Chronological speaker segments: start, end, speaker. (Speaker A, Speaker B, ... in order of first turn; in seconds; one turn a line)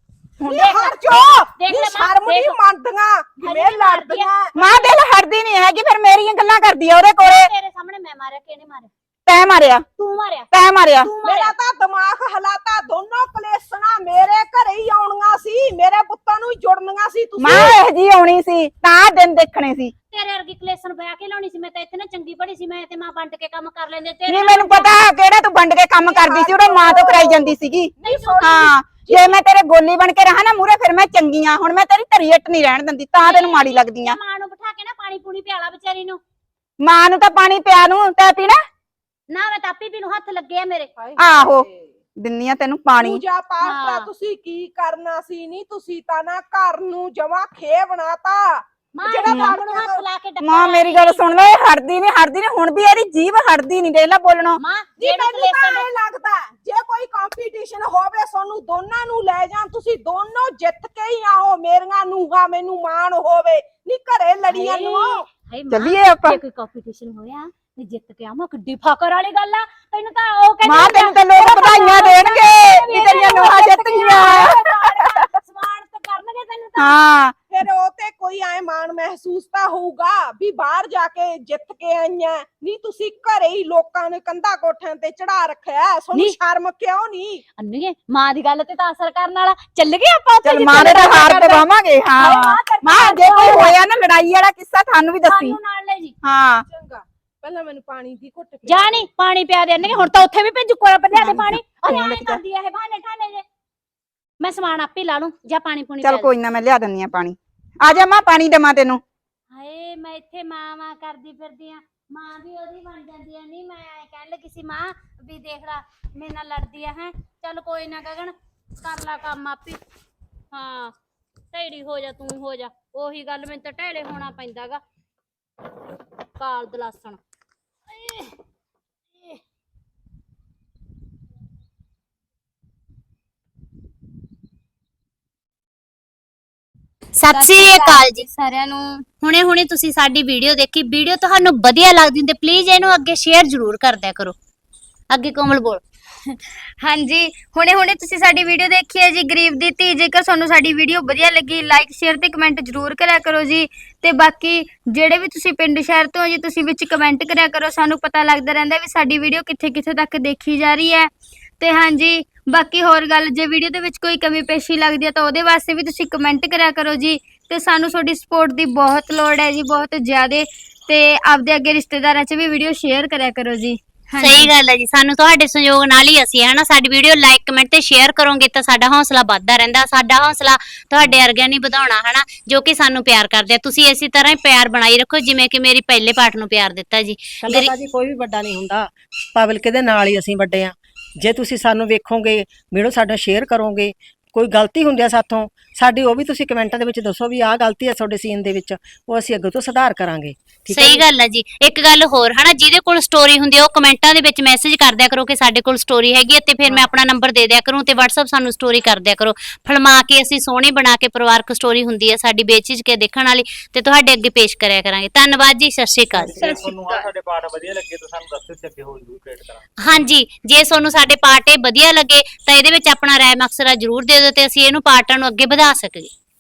Speaker A: 0.4-0.8
Speaker B: 0.5-4.5
Speaker C: 0.5-2.6
Speaker C: 3.4-4.9
Speaker A: 4.5-7.5
Speaker C: 7.2-8.9
Speaker A: 9.3-9.8
Speaker C: 10.0-10.5
Speaker A: 10.5-11.1
Speaker C: 11.0-11.6
Speaker B: 11.2-17.8
Speaker A: 17.4-19.9
Speaker C: 20.1-24.9
Speaker A: 24.3-34.2
Speaker B: 26.1-29.4
Speaker C: 28.0-28.6
Speaker C: 33.2-36.2
Speaker A: 36.8-38.6
Speaker C: 39.3-40.9
Speaker B: 41.0-42.0
Speaker A: 41.2-41.7
Speaker A: 42.2-43.2
Speaker B: 43.0-50.0
Speaker C: 43.6-44.1
Speaker C: 49.0-51.2
Speaker A: 49.3-49.6
Speaker A: 50.4-54.6
Speaker C: 54.6-55.9
Speaker B: 55.0-65.2
Speaker C: 64.5-77.0
Speaker A: 65.7-66.4
Speaker A: 70.6-75.3
Speaker A: 76.8-77.3
Speaker B: 77.5-87.4
Speaker C: 86.1-86.4
Speaker C: 87.6-91.6
Speaker A: 90.4-95.6
Speaker C: 92.2-93.8
Speaker C: 95.3-96.1
Speaker A: 96.2-96.7
Speaker B: 96.7-99.1
Speaker C: 98.7-103.4
Speaker A: 101.1-102.4
Speaker C: 104.4-106.3
Speaker A: 106.0-109.0
Speaker C: 109.5-119.8
Speaker C: 120.5-120.9
Speaker C: 121.5-124.8
Speaker C: 126.4-127.2
Speaker C: 127.9-128.4
Speaker C: 137.2-138.3
Speaker D: 137.3-139.0
Speaker C: 139.2-144.3
Speaker C: 145.1-145.8
Speaker D: 146.8-174.5
Speaker C: 174.2-187.7
Speaker E: 187.4-201.1
Speaker C: 200.7-216.4
Speaker E: 206.7-206.9
Speaker F: 216.1-219.6
Speaker D: 216.3-217.1
Speaker C: 219.8-226.1